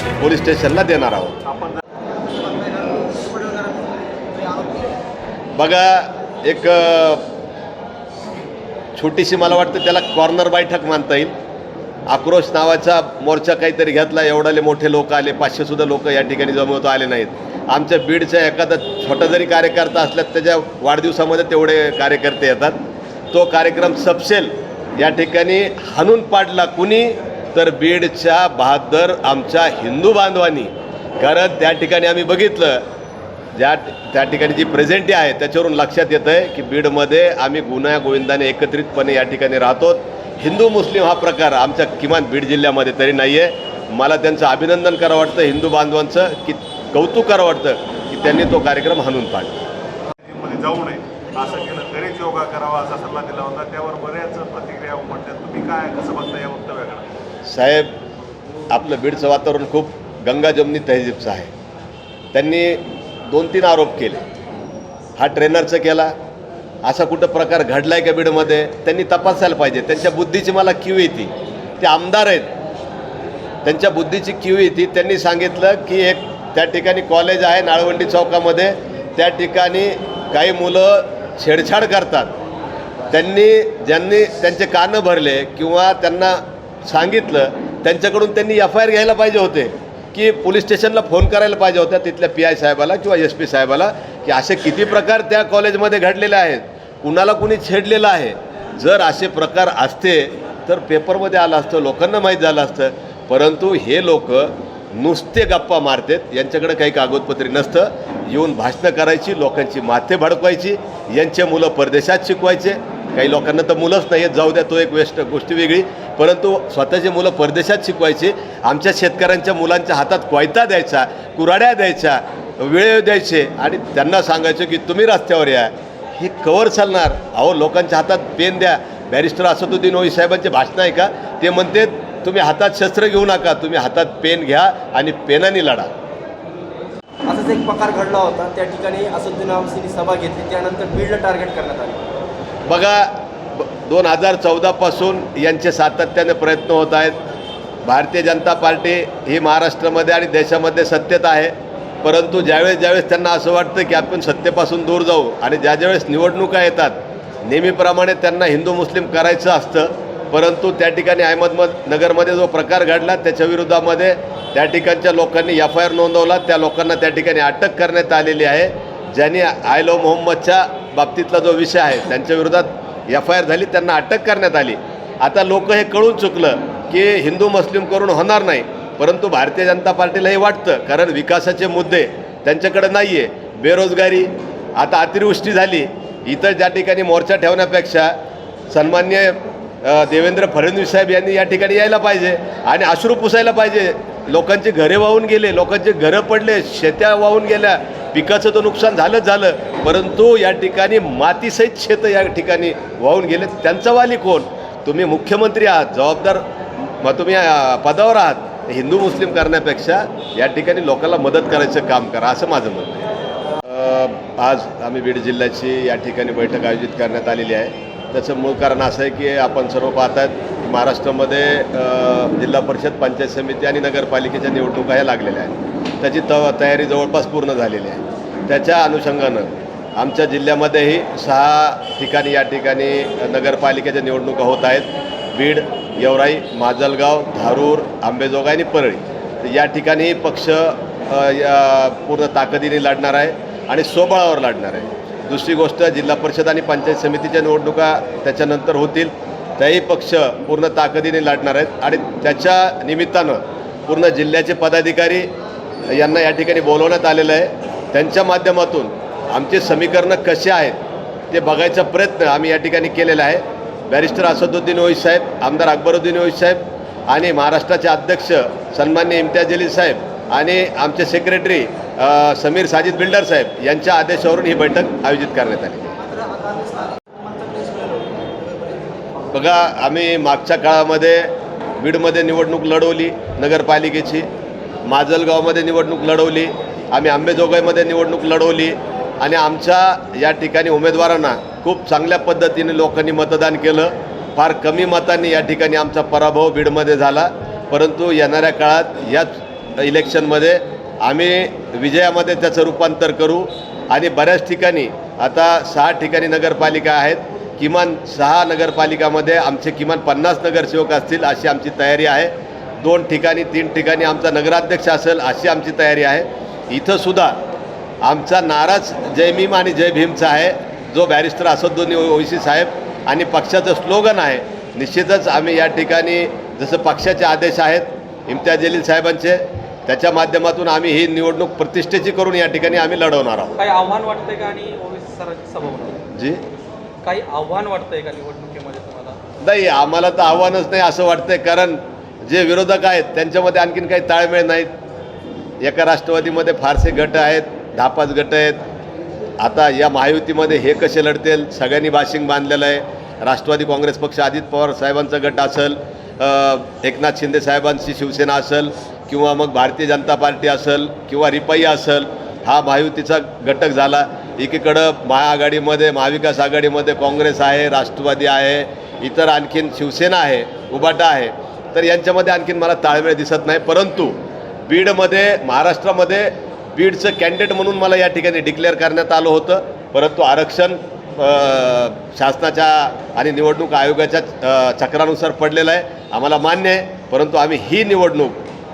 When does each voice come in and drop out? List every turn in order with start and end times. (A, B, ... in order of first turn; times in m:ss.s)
0:00.2-0:01.4 A
0:01.5-0:01.8 B
0:02.3-0:05.0 C
0:05.6-0:07.3 A
0:09.0-0:11.3 A
0:12.1-0:22.8 A
0:23.3-0:32.8 A
0:33.5-0:49.7 A
0:50.2-0:57.1 B
0:57.4-0:57.9 A
0:58.7-1:01.5 A
1:02.3-1:04.2 A
1:05.2-1:06.1 A
1:06.8-1:12.5 A
1:13.6-1:22.3 A
1:23.1-2:15.9 A
2:17.3-2:22.2 C
2:22.7-2:27.2 A
2:27.8-3:08.1 A
3:08.7-3:33.0 A
3:33.6-4:15.3 A
4:15.9-4:20.8 A
4:21.3-4:36.0 A
4:36.1-4:38.3 C
4:39.3-4:44.3 A
4:44.9-5:17.4 A
5:18.0-5:33.6 A
5:33.6-5:36.0 D
5:36.1-5:36.4 A
5:37.0-5:39.2 D
5:39.4-5:44.7 A
5:45.6-5:48.6 A
5:49.4-6:28.4 A